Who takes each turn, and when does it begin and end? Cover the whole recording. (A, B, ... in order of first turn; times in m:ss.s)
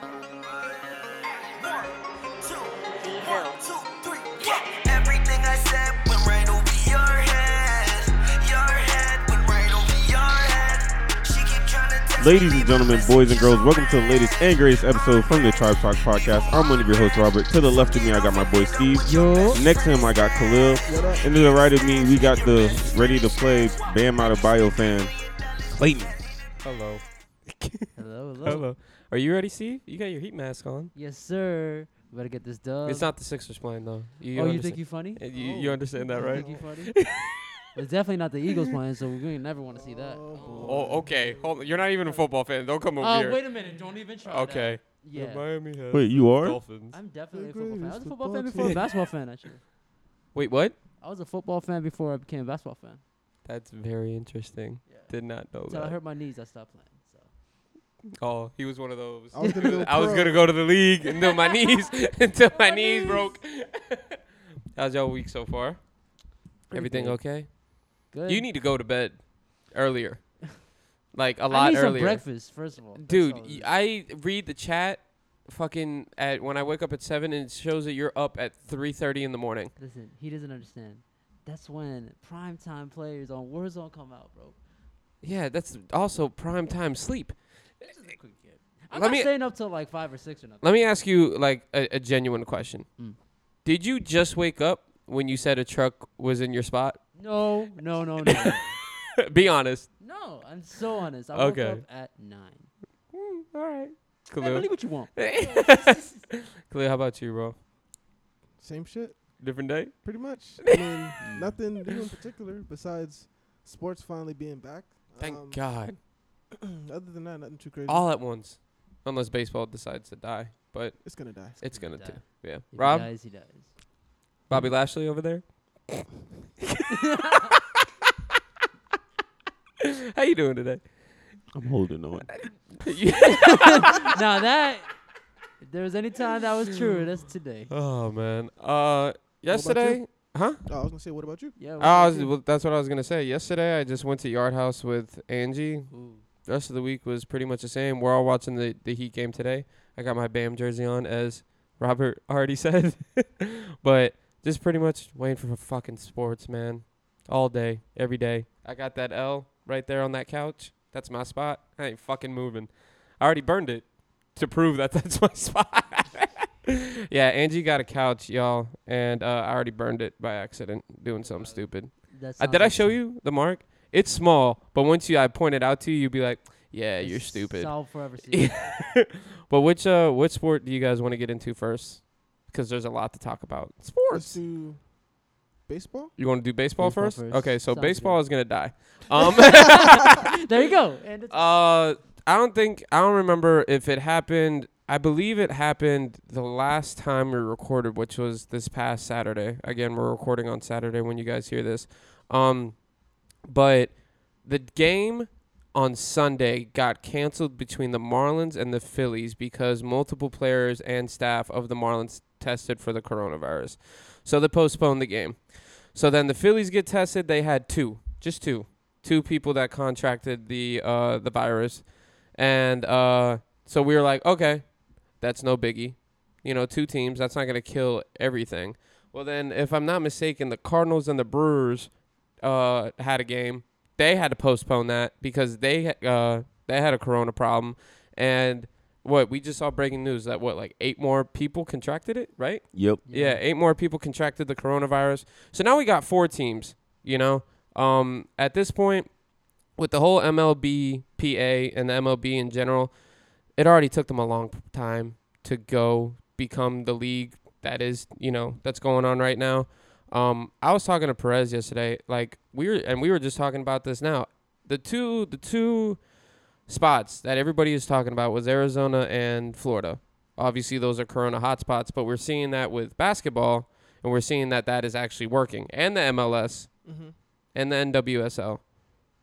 0:00.6-0:26.5 A
0:12.2-0:25.1 B
0:19.0-0:19.6 C
0:20.8-0:21.2 D
0:25.7-0:26.4 B
0:26.6-0:27.9 E
0:28.0-0:28.6 C
0:28.4-0:30.9 E
0:30.9-0:33.1 C
0:32.8-0:37.6 E
0:34.3-0:35.2 C
0:35.3-0:36.6 D
0:36.1-0:37.0 C
0:37.7-0:42.3 C
0:39.7-0:41.6 D
0:40.6-0:43.4 E
0:43.0-0:45.4 C
0:44.2-0:47.0 E
0:45.9-0:46.6 B
0:46.9-0:49.6 C
0:47.3-0:48.9 D
0:50.3-0:50.7 E
0:51.0-0:53.0 C
0:53.4-0:56.0 E
0:54.9-0:55.1 C
0:55.6-0:57.3 C
0:58.2-1:04.1 E
0:59.3-1:00.5 D
1:02.5-1:03.4 C
1:04.7-1:05.9 E
1:06.7-1:19.7 E
1:06.7-1:07.5 C
1:08.1-1:08.5 C
1:11.5-1:13.7 C
1:19.8-1:24.6 C
1:25.2-1:27.4 E
1:27.8-1:30.6 C
1:28.9-1:29.3 E
1:30.6-1:32.8 E
1:33.6-1:37.0 E
1:37.1-1:38.8 C
1:38.3-1:38.6 E
1:39.2-1:39.9 E
1:40.0-1:42.7 C
1:41.3-1:41.8 E
1:43.1-1:47.6 E
1:44.4-1:46.3 C
1:48.6-1:49.4 D
1:49.4-1:51.2 E
1:50.0-1:55.6 D
1:51.2-1:51.6 C
1:55.2-1:56.0 E
1:56.6-1:58.0 D
1:57.9-2:03.1 E
2:01.0-2:01.6 D
2:01.7-2:03.7 C
2:04.5-2:06.0 E
2:04.5-2:04.7 C
2:06.6-2:07.6 E
2:06.9-2:07.5 C
2:10.1-2:10.8 E
2:11.5-2:12.3 B
2:12.3-2:14.2 E
2:13.4-2:14.9 C
2:15.6-2:17.7 C
2:17.7-2:20.6 E
2:19.5-2:21.6 D
2:21.6-2:22.3 C
2:21.8-3:04.4 E
2:25.9-2:26.2 C
2:51.2-2:53.0 C
2:57.0-2:58.9 C
3:04.1-3:04.8 D
3:05.7-3:06.1 D
3:06.2-3:10.5 E
3:06.8-3:08.2 C
3:09.5-3:11.4 C
3:11.3-3:22.8 E
3:23.4-4:09.1 E
4:02.7-4:03.0 B
4:03.1-4:03.4 C
4:09.7-4:12.9 E
4:13.5-4:26.1 E
4:26.6-4:36.8 E
4:36.8-4:37.1 D
4:37.5-4:38.7 E